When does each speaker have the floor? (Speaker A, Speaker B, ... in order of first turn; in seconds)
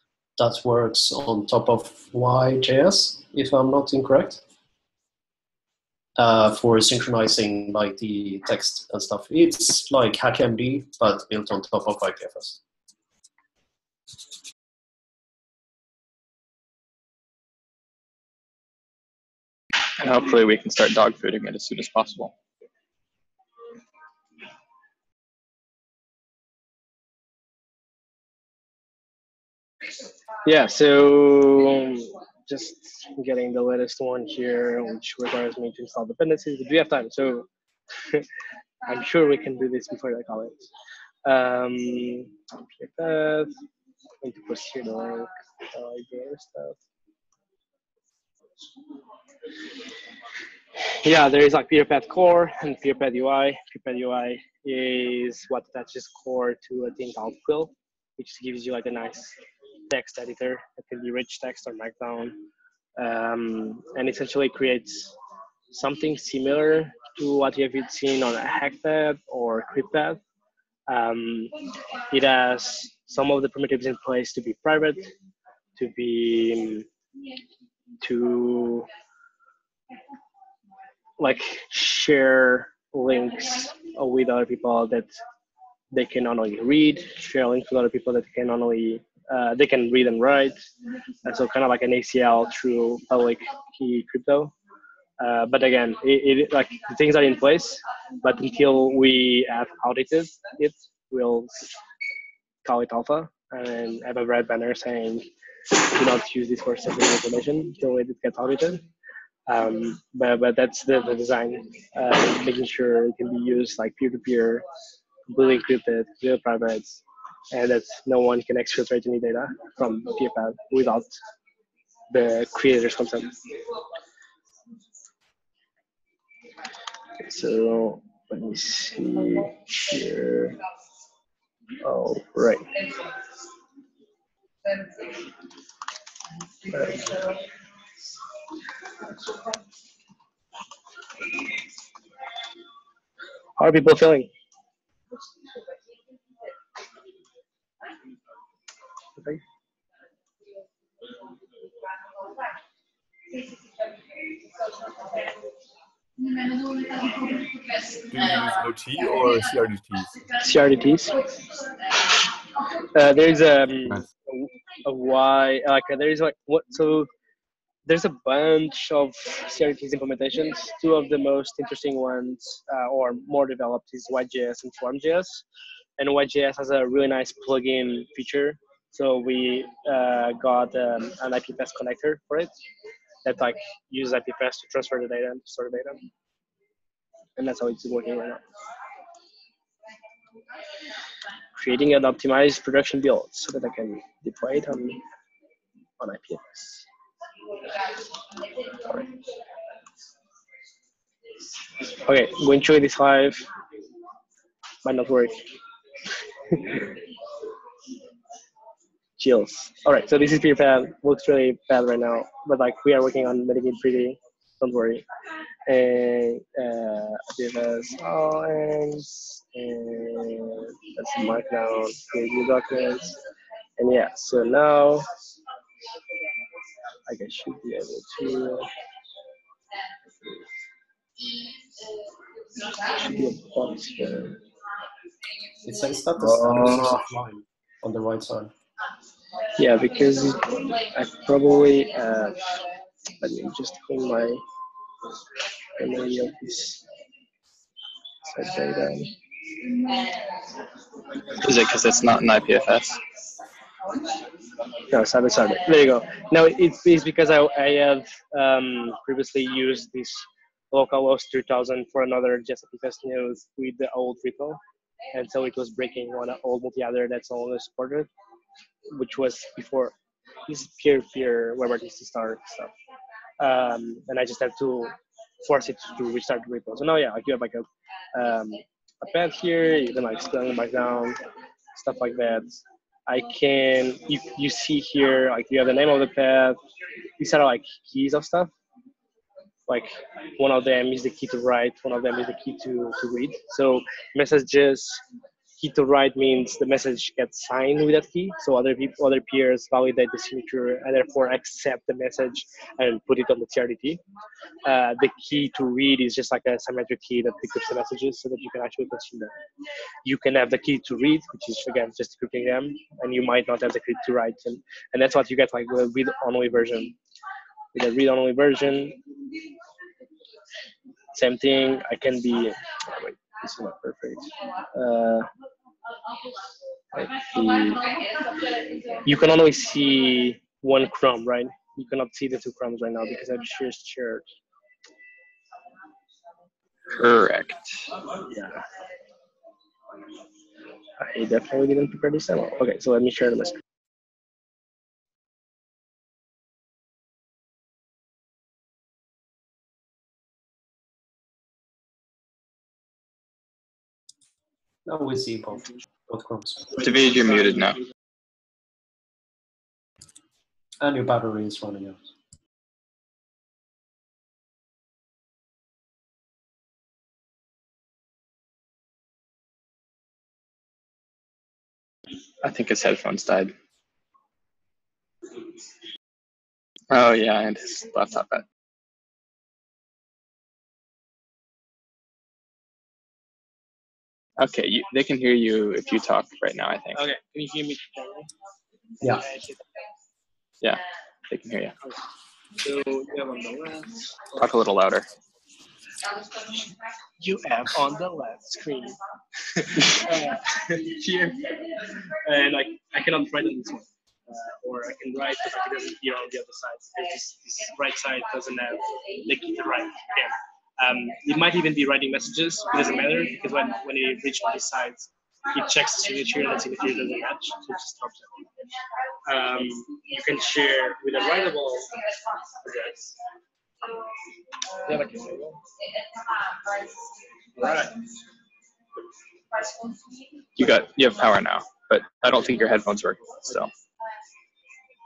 Speaker A: 0.4-4.4, 6.2-12.6, 235.6-238.5, 354.8-356.7, 360.8-362.1
Speaker B: 20.0-22.3, 251.4-253.0, 336.9-337.5, 356.7-357.8, 372.4-373.5, 376.9-378.4, 384.4-387.0, 390.6-391.7, 394.4-395.1, 430.6-433.7
Speaker C: 30.4-37.5, 38.9-40.7, 41.2-43.5, 44.2-46.8, 51.0-59.3, 59.9-62.4, 63.0-65.1, 65.7-70.2, 70.9-71.5, 72.1-75.1, 75.8-76.8, 78.0-78.9, 81.2-85.1, 85.9-90.6, 91.2-94.5, 95.2-101.7, 102.6-108.8, 109.5-114.6, 115.3-121.2, 122.1-123.3, 127.2-130.6, 131.8-132.7, 136.7-137.2, 143.6-144.3, 160.4-161.2, 162.9-167.1, 167.8-175.4, 176.0-182.5, 183.2-186.1, 187.4-188.4, 191.6-195.0, 196.0-196.8, 202.1-203.4, 204.8-205.4, 206.5-206.8, 209.2-215.0, 215.7-223.2, 223.8-225.1, 227.1-228.7, 232.9-234.4, 236.2-237.0, 239.6-242.4, 243.2-244.4, 245.8-246.8, 248.3-249.1, 254.9-264.6, 265.1-268.1, 268.9-269.9, 270.5-272.7, 273.4-281.2, 281.7-286.6, 287.2-288.5, 289.7-295.0, 295.6-304.0, 304.6-309.3, 310.0-316.9, 317.7-319.0, 321.1-325.3, 326.9-327.9, 329.0-334.2, 338.3-338.6, 341.0-343.5, 386.9-388.3, 389.1-389.6, 392.6-394.4, 397.2-399.0, 399.6-401.7, 402.2-418.4, 419.3-421.9, 422.6-423.1, 424.9-425.6, 427.6-428.0
Speaker D: 158.1-160.2